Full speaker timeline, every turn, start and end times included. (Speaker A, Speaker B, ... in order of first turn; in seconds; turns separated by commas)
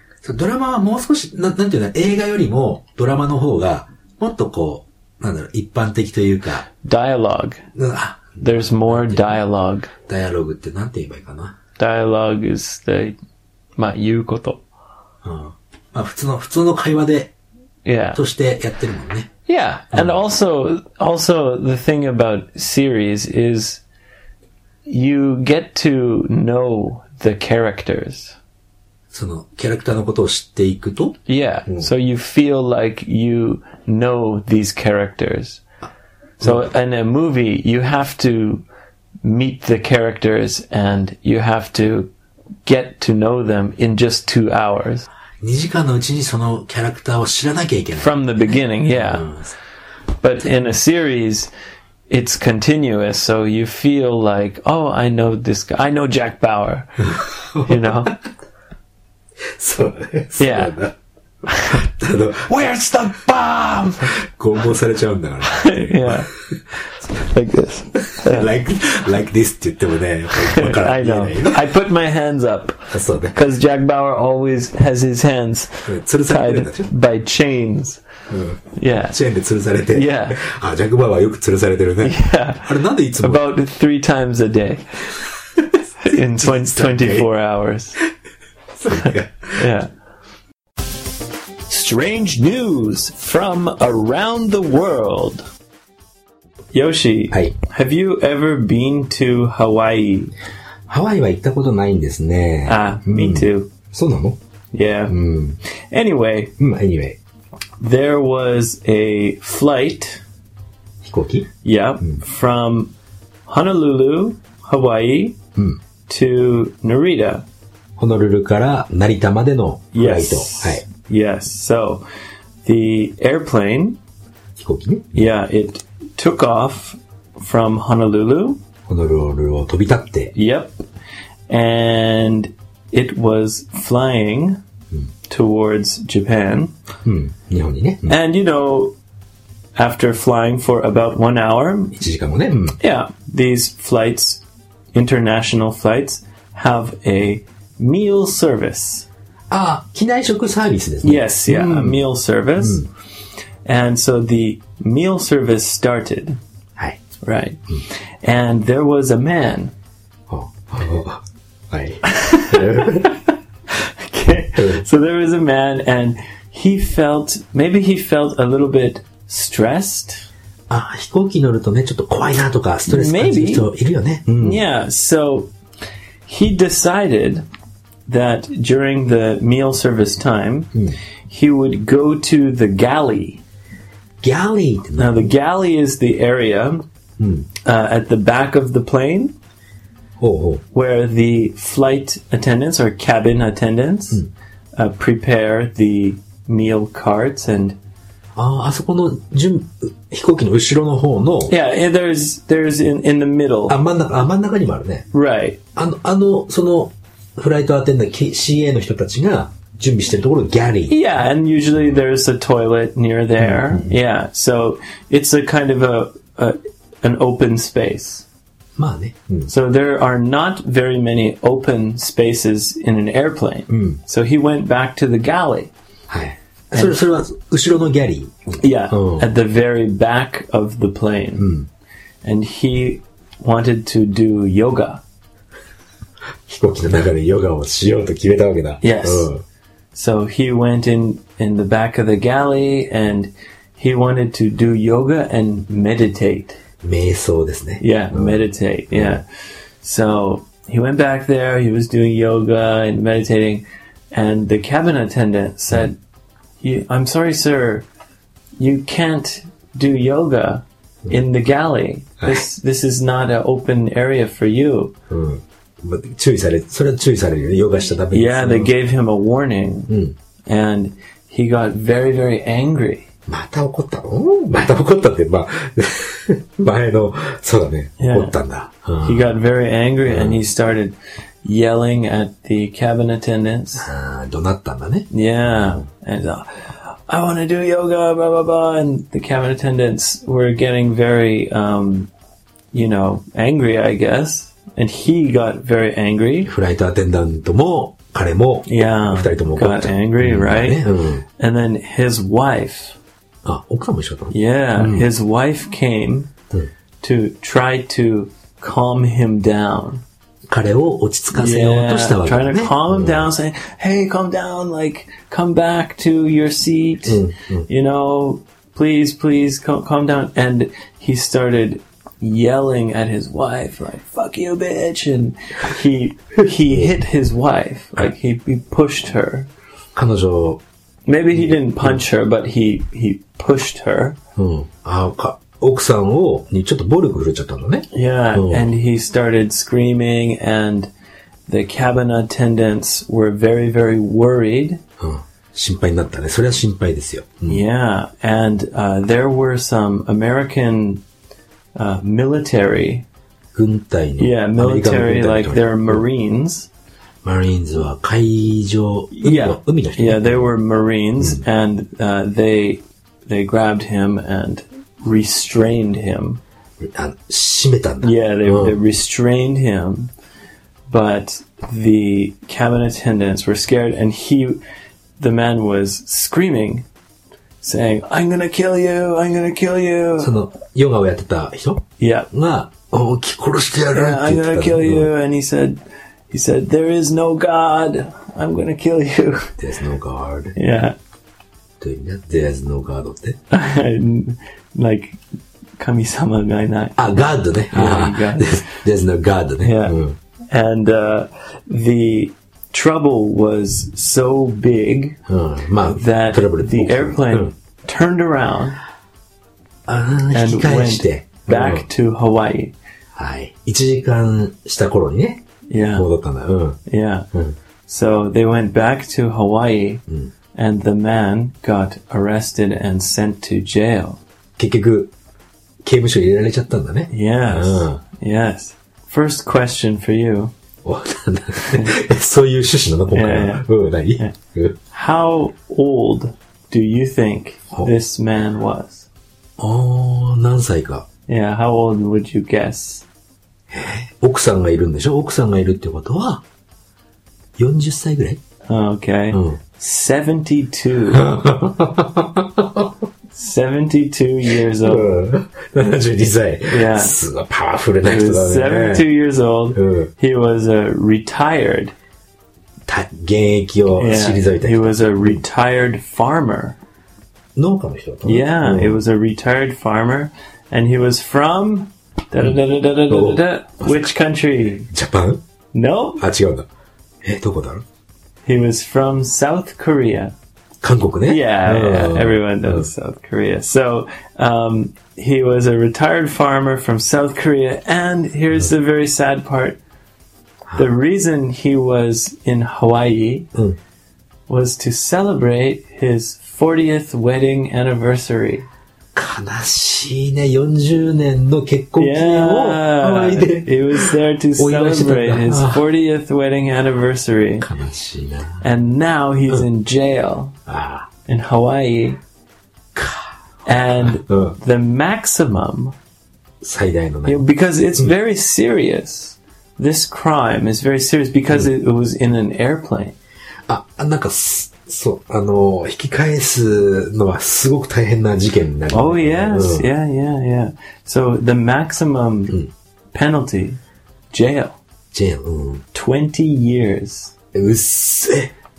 Speaker A: 0.2-6.7, Speaker B: 6.8-7.6, Speaker A: 7.7-9.4, Speaker B: 8.4-9.9, Speaker A: 10.1-11.6, Speaker B: 11.8-13.2, Speaker B: 13.8-14.6, Speaker A: 15.2-17.3, Speaker B: 17.9-18.2, Speaker A: 18.1-19.3, Speaker B: 19.5-23.8, Speaker A: 19.9-20.2, Speaker B: 24.9-28.4, Speaker A: 29.1-31.9, Speaker B: 31.3-35.6, Speaker A: 36.4-36.7, Speaker B: 36.4-38.6, Speaker B: 39.2-42.1, Speaker B: 42.6-45.1, Speaker A: 45.4-49.5, Speaker B: 48.0-49.3, Speaker B: 50.2-51.5, Speaker B: 52.1-58.1, Speaker A: 57.0-58.1, Speaker A: 59.5-60.9, Speaker B: 60.4-60.8, Speaker B: 61.5-61.8, Speaker A: 61.5-62.7, Speaker B: 62.5-64.2, Speaker A: 64.0-67.2, Speaker B: 65.5-66.3, Speaker B: 67.2-68.5, Speaker A: 68.0-71.7, Speaker B: 70.3-78.0, Speaker A: 72.9-73.3, Speaker A: 75.8-76.9, Speaker A: 78.3-83.5, Speaker B: 78.7-79.2, Speaker B: 79.9-80.4, Speaker B: 82.0-84.8, Speaker A: 85.5-87.3, Speaker B: 86.0-88.0, Speaker A: 88.7-89.7, Speaker B: 88.9-89.9, Speaker B: 91.7-95.5, Speaker B: 96.7-100.3, Speaker A: 97.3-97.5, Speaker A: 100.9-104.4, Speaker B: 102.7-103.7, Speaker B: 104.7-105.2, Speaker A: 105.1-105.6, Speaker B: 105.9-106.5, Speaker A: 106.6-107.2, Speaker B: 107.8-110.2, Speaker A: 111.0-111.5, Speaker B: 111.6-112.9, Speaker B: 113.5-115.4, Speaker B: 116.1-117.4, Speaker A: 118.0-120.8, Speaker B: 119.9-122.0, Speaker B: 122.6-124.0, Speaker A: 124.6-125.2, Speaker B: 125.1-128.6, Speaker A: 128.9-130.3, Speaker B: 130.3-130.8, Speaker B: 131.5-134.6, Speaker B: 135.3-136.7, Speaker A: 137.0-138.2, Speaker B: 138.1-138.9, Speaker B: 139.8-141.9, Speaker A: 141.9-142.8, Speaker B: 142.8-149.1, Speaker A: 149.5-152.0, Speaker B: 151.0-152.9, Speaker A: 152.6-152.9, Speaker B: 153.6-156.4, Speaker B: 157.2-159.7, Speaker A: 160.3-163.2, Speaker B: 162.0-163.2, Speaker B: 163.7-170.3, Speaker A: 164.5-164.8, Speaker A: 170.7-174.6, Speaker B: 172.9-173.7, Speaker B: 174.4-175.5, Speaker B: 176.2-177.4, Speaker B: 178.1-180.7, Speaker B: 181.3-183.4, Speaker A: 184.2-185.3, Speaker B: 185.0-186.8, Speaker A: 187.2-187.5, Speaker B: 187.6-189.3, Speaker A: 190.2-190.6, Speaker B: 190.7-194.2, Speaker B: 194.8-197.8, Speaker A: 198.3-201.5, Speaker B: 201.5-203.8, Speaker A: 203.7-205.1, Speaker B: 205.1-205.6, Speaker A: 205.8-211.0, Speaker B: 210.9-218.2, Speaker A: 213.4-214.0, Speaker A: 218.8-219.5, Speaker B: 219.5-225.7, Speaker A: 223.7-224.0, Speaker A: 226.1-229.3, Speaker B: 228.6-231.5, Speaker A: 231.4-231.7, Speaker B: 232.2-235.0, Speaker A: 236.5-239.4, Speaker B: 238.8-239.3, Speaker B: 239.9-246.6, Speaker A: 246.8-249.2, Speaker B: 247.8-249.2, Speaker B: 249.8-256.0, Speaker B: 256.6-257.9, Speaker B: 258.6-264.9, Speaker A: 262.2-262.4, Speaker A: 265.1-268.7, Speaker B: 268.1-269.9, Speaker A: 269.9-270.1, Speaker B: 270.5-273.1, Speaker A: 273.3-279.3, Speaker B: 278.0-278.3, Speaker B: 279.0-283.9, Speaker A: 280.1-280.4, Speaker A: 283.8-285.8, Speaker B: 285.1-292.1, Speaker B: 292.7-296.5, Speaker A: 296.4-301.2, Speaker B: 298.6-300.9, Speaker B: 301.4-303.0, Speaker A: 303.4-305.1, Speaker B: 304.3-306.3, Speaker B: 307.0-310.0, Speaker A: 310.5-313.3, Speaker B: 311.3-329.5, Speaker A: 317.1-317.7, Speaker A: 329.9-330.6, Speaker B: 331.1-334.2, Speaker A: 331.3-332.0, Speaker A: 334.4-338.7, Speaker B: 337.9-340.9, Speaker B: 341.5-344.8, Speaker A: 345.0-347.6, Speaker B: 347.5-351.0, Speaker B: 351.8-353.0, Speaker A: 353.5-356.0, Speaker B: 354.2-356.7, Speaker A: 357.2-360.5, Speaker B: 359.2-366.4, Speaker A: 366.8-368.8, Speaker B: 368.0-370.1, Speaker B: 370.9-374.6, Speaker B: 375.2-376.9, Speaker B: 377.6-380.3, Speaker A: 380.2-385.1, Speaker B: 382.0-382.3, Speaker B: 383.9-385.8, Speaker B: 386.3-389.6, Speaker A: 389.6-390.6, Speaker B: 390.5-390.9, Speaker A: 391.8-393.4, Speaker B: 393.5-395.2, Speaker B: 395.8-397.0, Speaker A: 397.0-400.1, Speaker B: 397.7-398.6, Speaker B: 399.6-400.0, Speaker B: 400.5-405.2, Speaker A: 405.3-407.5, Speaker B: 405.9-408.8, Speaker A: 409.9-411.9, Speaker B: 410.3-412.7, Speaker A: 413.2-415.4, Speaker B: 415.7-416.1, Speaker A: 415.9-416.8, Speaker B: 416.9-417.3, Speaker B: 417.9-420.0, Speaker B: 420.5-424.2, Speaker A: 424.6-425.1, Speaker A: 425.8-428.0, Speaker B: 427.1-430.5, Speaker A: 430.8-434.8, Speaker B: 431.6-431.9, Speaker B: 433.1-433.7, Speaker B: 434.9-439.1, Speaker A: 439.6-441.1, Speaker B: 441.3-443.1, Speaker A: 443.7-446.4, Speaker A: 447.6-448.4, Speaker B: 448.7-451.3, Speaker A: 449.3-449.6, Speaker A: 451.1-452.9, Speaker B: 453.3-455.2, Speaker A: 454.8-459.1, Speaker B: 456.7-457.2, Speaker B: 458.0-461.9, Speaker A: 459.7-460.1, Speaker A: 462.9-465.4, Speaker B: 464.0-466.8, Speaker A: 467.6-469.0, Speaker B: 468.2-474.9, Speaker A: 472.4-474.1, Speaker A: 474.9-475.4, Speaker B: 475.7-476.2, Speaker A: 476.2-476.7, Speaker A: 477.2-477.8, Speaker B: 478.4-480.3, Speaker A: 480.8-482.9, Speaker B: 481.2-489.8, Speaker B: 490.7-493.5, Speaker B: 494.5-498.6, Speaker A: 499.1-505.8, Speaker B: 502.0-507.7, Speaker A: 507.6-508.6, Speaker B: 508.6-510.6, Speaker A: 510.7-511.1, Speaker B: 511.2-512.2, Speaker A: 512.9-513.3, Speaker B: 513.6-516.0, Speaker A: 513.8-514.5, Speaker A: 516.6-517.4, Speaker B: 517.2-523.1, Speaker A: 523.7-529.9, Speaker B: 528.9-532.6, Speaker B: 533.1-533.8, Speaker B: 534.3-534.8, Speaker A: 535.1-535.8, Speaker B: 535.9-537.3, Speaker A: 537.5-538.5